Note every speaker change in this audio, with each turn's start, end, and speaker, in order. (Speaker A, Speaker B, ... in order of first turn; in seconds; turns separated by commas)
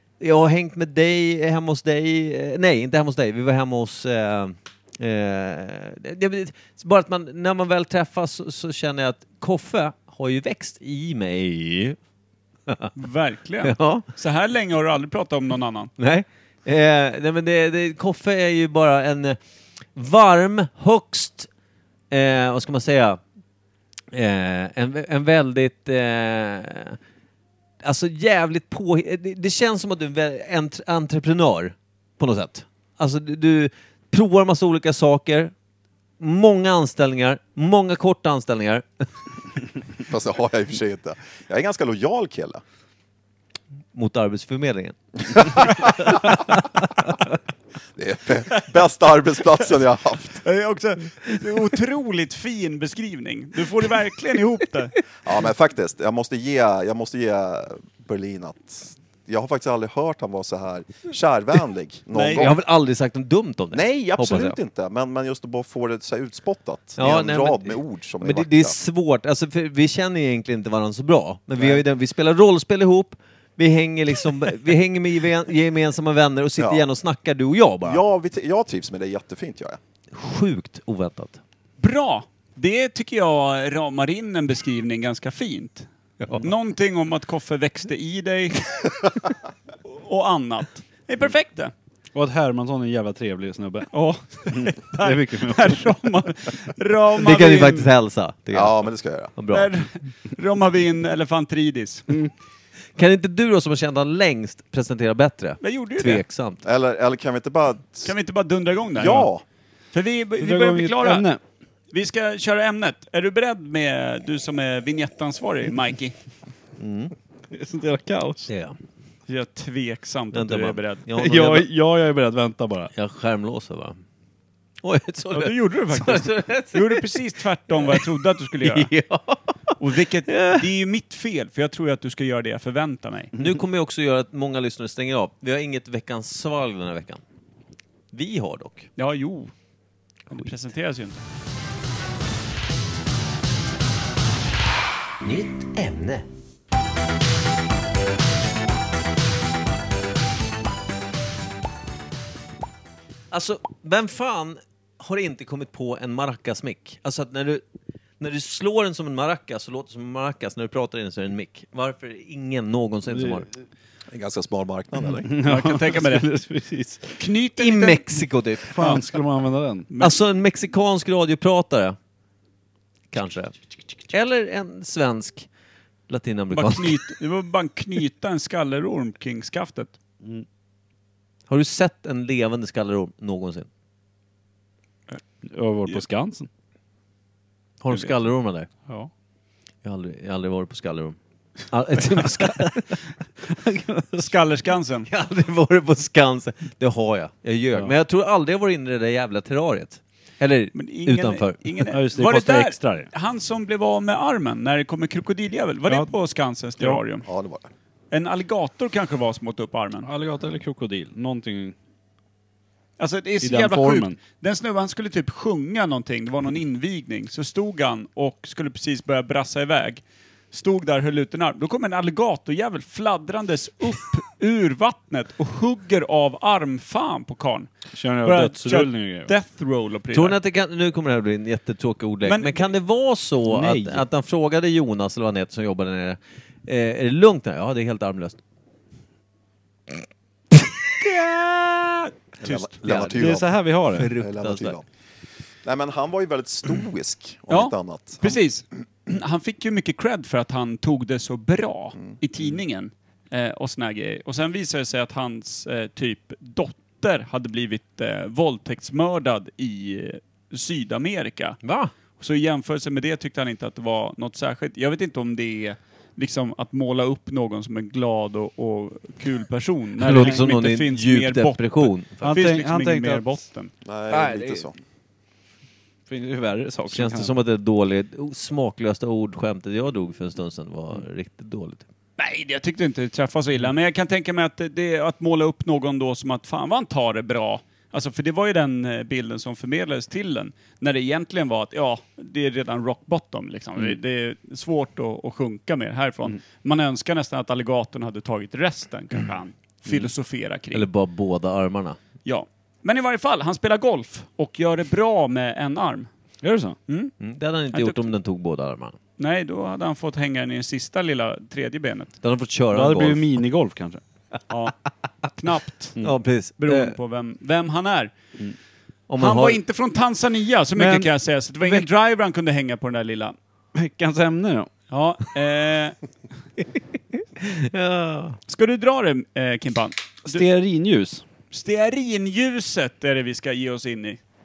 Speaker A: 0.2-12.0, Speaker A: 12.7-12.9, Speaker B: 12.9-15.9, Speaker A: 13.6-14.1, Speaker A: 16.0-19.4, Speaker A: 20.0-21.5, Speaker A: 22.1-23.2, Speaker A: 24.1-27.0, Speaker A: 27.8-35.5, Speaker A: 36.2-39.1, Speaker C: 40.0-42.6, Speaker A: 43.9-46.7, Speaker C: 45.3-46.4, Speaker C: 48.0-50.4, Speaker B: 50.4-55.0, Speaker C: 55.2-62.6, Speaker B: 62.1-62.5, Speaker A: 62.4-64.6, Speaker C: 63.7-68.8, Speaker A: 67.0-78.0, Speaker C: 71.6-71.8, Speaker C: 76.6-76.8, Speaker C: 77.8-79.8, Speaker A: 80.1-81.4, Speaker B: 81.8-85.9, Speaker A: 86.2-86.5, Speaker B: 86.4-88.9, Speaker B: 89.8-91.7, Speaker D: 92.1-93.9, Speaker B: 93.9-97.9, Speaker D: 94.5-96.0, Speaker A: 97.2-99.7, Speaker C: 98.5-99.3, Speaker B: 99.5-102.1, Speaker A: 103.0-106.6, Speaker B: 105.6-106.2, Speaker C: 106.6-108.1, Speaker B: 108.0-109.3, Speaker C: 108.9-109.4, Speaker B: 109.9-111.3, Speaker D: 110.4-111.4, Speaker B: 111.9-116.2, Speaker A: 116.8-117.1, Speaker D: 117.5-118.5, Speaker A: 118.5-118.8, Speaker B: 119.3-121.0, Speaker A: 120.3-121.7, Speaker D: 121.2-122.9, Speaker A: 122.9-124.0, Speaker A: 124.8-129.8, Speaker B: 125.3-128.9, Speaker B: 129.8-133.3, Speaker A: 130.3-130.6, Speaker A: 133.4-137.2, Speaker A: 138.1-138.9, Speaker B: 139.0-139.5, Speaker B: 140.3-141.2, Speaker A: 145.2-146.3, Speaker A: 153.3-157.6, Speaker A: 158.2-163.5, Speaker D: 163.1-163.4, Speaker C: 164.1-165.3, Speaker D: 165.2-167.2, Speaker B: 165.4-166.3, Speaker B: 167.2-168.0, Speaker A: 167.6-168.8, Speaker D: 168.7-169.9, Speaker B: 168.8-169.2, Speaker B: 169.9-170.2, Speaker A: 170.0-172.0, Speaker A: 173.1-173.5, Speaker A: 174.1-175.5, Speaker A: 176.1-177.1, Speaker B: 176.5-179.9, Speaker A: 181.5-183.7, Speaker D: 185.5-186.5, Speaker A: 187.8-188.7, Speaker A: 189.8-191.2, Speaker A: 191.7-193.0, Speaker D: 193.5-194.1, Speaker B: 194.2-195.1, Speaker A: 195.1-201.6, Speaker B: 200.7-207.3, Speaker D: 201.9-203.1, Speaker C: 207.2-207.7, Speaker B: 208.1-210.1, Speaker D: 210.1-211.8, Speaker B: 213.0-230.4, Speaker D: 213.4-214.2, Speaker D: 227.9-229.3, Speaker A: 230.1-238.4, Speaker B: 232.2-232.7, Speaker D: 233.5-234.0, Speaker B: 241.0-242.8, Speaker C: 242.4-244.8, Speaker A: 242.8-243.3, Speaker D: 243.2-244.1, Speaker A: 243.9-244.8, Speaker C: 245.6-248.4, Speaker B: 247.5-261.6, Speaker A: 261.6-261.9, Speaker B: 262.2-273.7, Speaker A: 270.0-272.4, Speaker D: 272.2-273.3, Speaker C: 273.8-274.8, Speaker D: 274.1-274.6, Speaker D: 276.1-277.3, Speaker A: 276.9-281.9, Speaker B: 282.2-300.9, Speaker A: 300.7-302.0, Speaker B: 302.2-306.1, Speaker D: 306.4-306.8, Speaker B: 306.9-307.1, Speaker A: 307.2-309.0, Speaker B: 307.7-308.1, Speaker B: 309.2-312.1, Speaker A: 312.2-313.3, Speaker D: 312.7-314.0, Speaker B: 314.5-314.8, Speaker B: 315.3-316.0, Speaker A: 316.0-317.0, Speaker B: 316.6-318.1, Speaker A: 319.1-319.6, Speaker B: 319.2-323.4, Speaker D: 320.8-321.1, Speaker D: 321.6-321.9, Speaker D: 323.8-324.7, Speaker B: 324.9-326.0, Speaker A: 326.6-328.4, Speaker B: 328.5-330.4, Speaker D: 330.3-331.2, Speaker B: 331.5-334.2